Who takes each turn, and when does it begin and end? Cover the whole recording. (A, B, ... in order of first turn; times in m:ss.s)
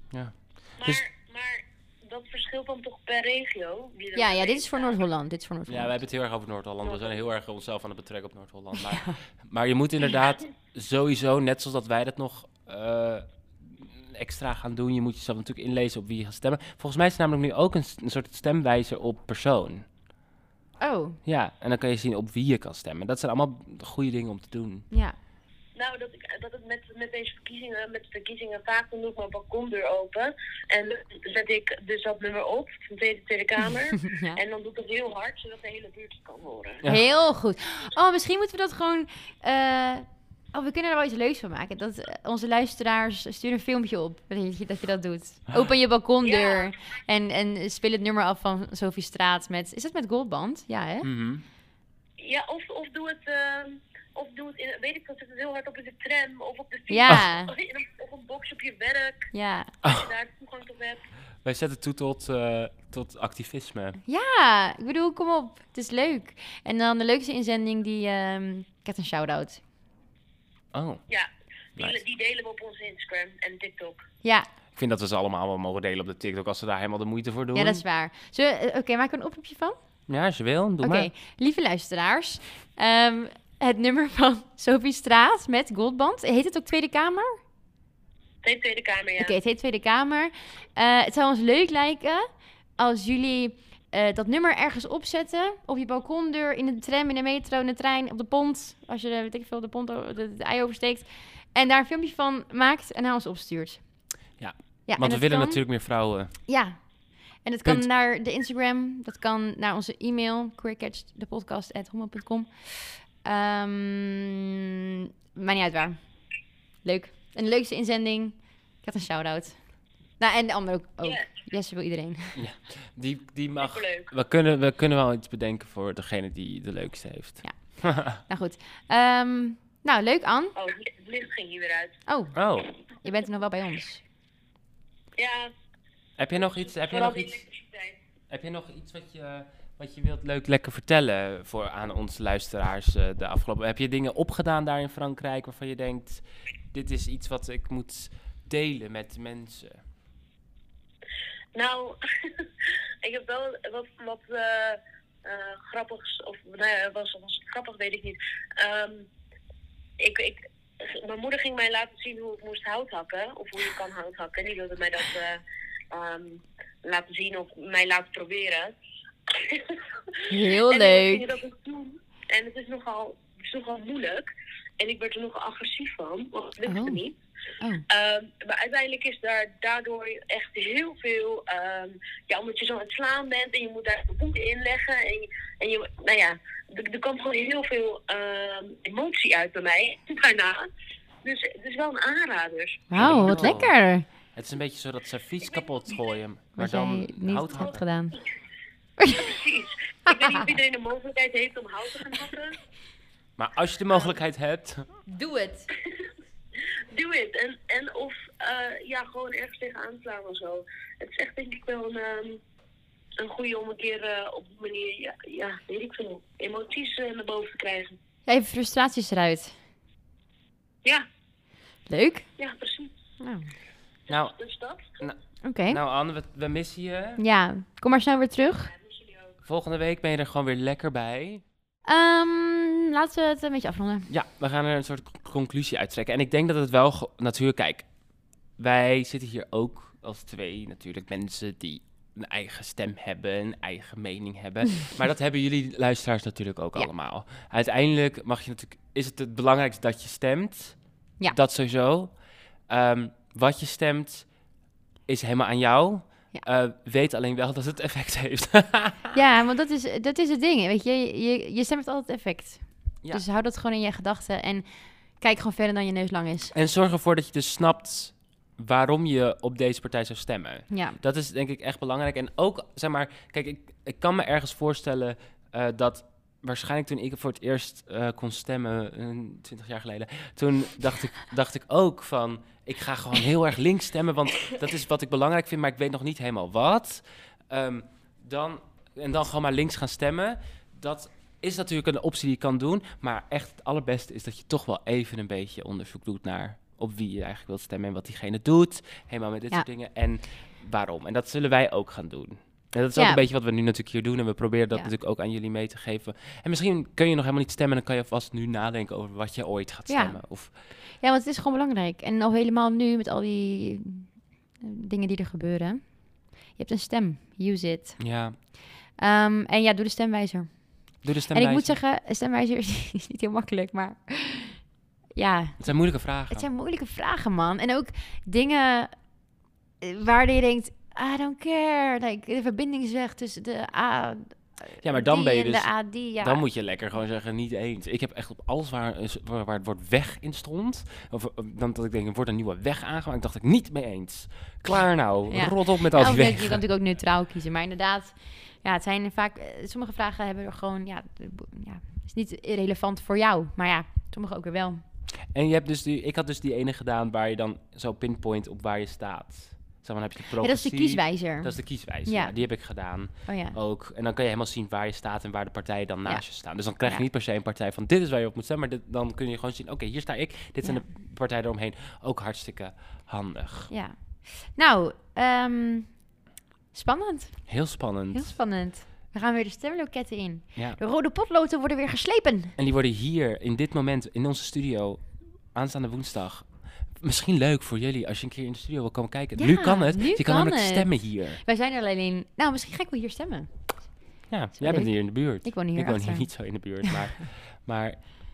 0:00.1-0:01.0 A
0:00.8-0:05.0 B
0:04.1-0:06.0 C
0:05.7-0:19.8 A
0:06.8-0:07.2 B
0:08.8-0:09.2 C
0:20.8-0:21.2 C
0:21.2-0:24.9 A
0:24.9-0:25.2 C
0:25.7-0:36.8 B
0:34.0-0:34.4 C
0:36.8-0:51.1 C
0:46.2-0:46.7 B
0:51.0-0:51.4 A
0:52.2-0:59.3 B
0:56.9-0:57.5 C
0:59.3-0:59.7 C
0:59.8-1:00.1 A
0:59.8-1:01.0 B
1:01.4-1:04.0 A
1:04.0-1:09.6 C
1:10.7-1:11.0 A
1:11.1-1:14.0 B
1:14.7-1:17.8 A
1:17.5-1:19.8 C
1:20.1-1:21.1 A
1:20.8-1:27.4 C
1:28.4-1:29.4 B
1:29.2-1:43.8 C
1:44.4-1:46.3 A
1:44.9-1:45.6 C
1:46.5-1:46.8 C
1:47.4-1:56.0 C
1:56.8-1:59.6 C
2:00.2-2:02.4 C
2:01.0-2:01.3 B
2:02.4-2:08.2 A
2:03.6-2:04.1 B
2:07.4-2:10.5 C
2:10.5-2:11.9 B
2:12.1-2:12.3 C
2:12.3-2:12.6 A
2:13.0-2:14.0 C
2:15.2-2:15.5 B
2:16.2-2:17.4 A
2:16.4-2:18.0 B
2:18.3-2:29.8 A
2:31.5-2:32.4 B
2:33.0-2:39.1 B
2:40.0-2:45.4 B
2:45.9-2:48.8 B
2:49.3-2:54.3 B
2:50.3-2:51.3 C
2:54.8-2:57.2 B
2:56.6-2:57.0 C
2:57.9-3:10.7 B
3:11.2-3:13.5 B
3:12.9-3:14.1 C
3:13.0-3:13.7 A
3:14.3-3:17.8 A
3:16.6-3:18.2 C
3:19.0-3:19.4 C
3:19.1-3:22.6 B
3:20.1-3:20.4 C
3:23.4-3:24.8 A
3:25.1-3:25.7 C
3:26.9-3:32.4 B
3:33.2-3:37.9 B
3:38.2-3:39.6 C
3:41.9-3:42.2 C
3:42.4-3:42.9 B
3:43.2-3:43.5 C
3:44.1-3:44.3 A
3:44.1-3:45.0 B
3:45.4-3:45.8 C
3:45.7-3:47.2 A
3:47.2-3:48.7 C
3:48.7-3:49.3 B
3:49.4-3:51.4 A
3:51.9-3:54.1 C
3:54.1-3:57.8 A
3:58.6-4:10.8 A
4:11.3-4:12.1 A
4:12.7-4:14.2 A
4:15.1-4:19.2 A
4:19.1-4:24.6 C
4:25.2-4:26.5 C
4:26.5-5:10.5 A
4:30.7-4:31.0 C
5:03.0-5:03.2 C
5:09.9-5:10.2 C
5:11.0-5:18.0 C
5:18.0-5:18.4 A
5:19.0-5:20.6 C
5:21.0-5:21.7 A
5:21.3-5:24.6 C
5:25.1-5:25.7 C
5:25.6-5:26.4 A
5:26.3-5:28.9 C
5:29.8-5:36.4 C
5:34.8-5:46.6 A
5:45.3-5:54.8 C
5:55.3-6:13.7 A
6:00.4-6:02.3 C
6:03.3-6:03.6 C
6:13.7-6:16.0 C
6:16.7-6:22.5 C
6:17.5-6:18.3 A
6:22.6-6:26.5 A
6:27.0-6:31.4 A
6:29.4-6:33.5 C
6:34.3-6:38.0 A
6:34.6-6:36.3 C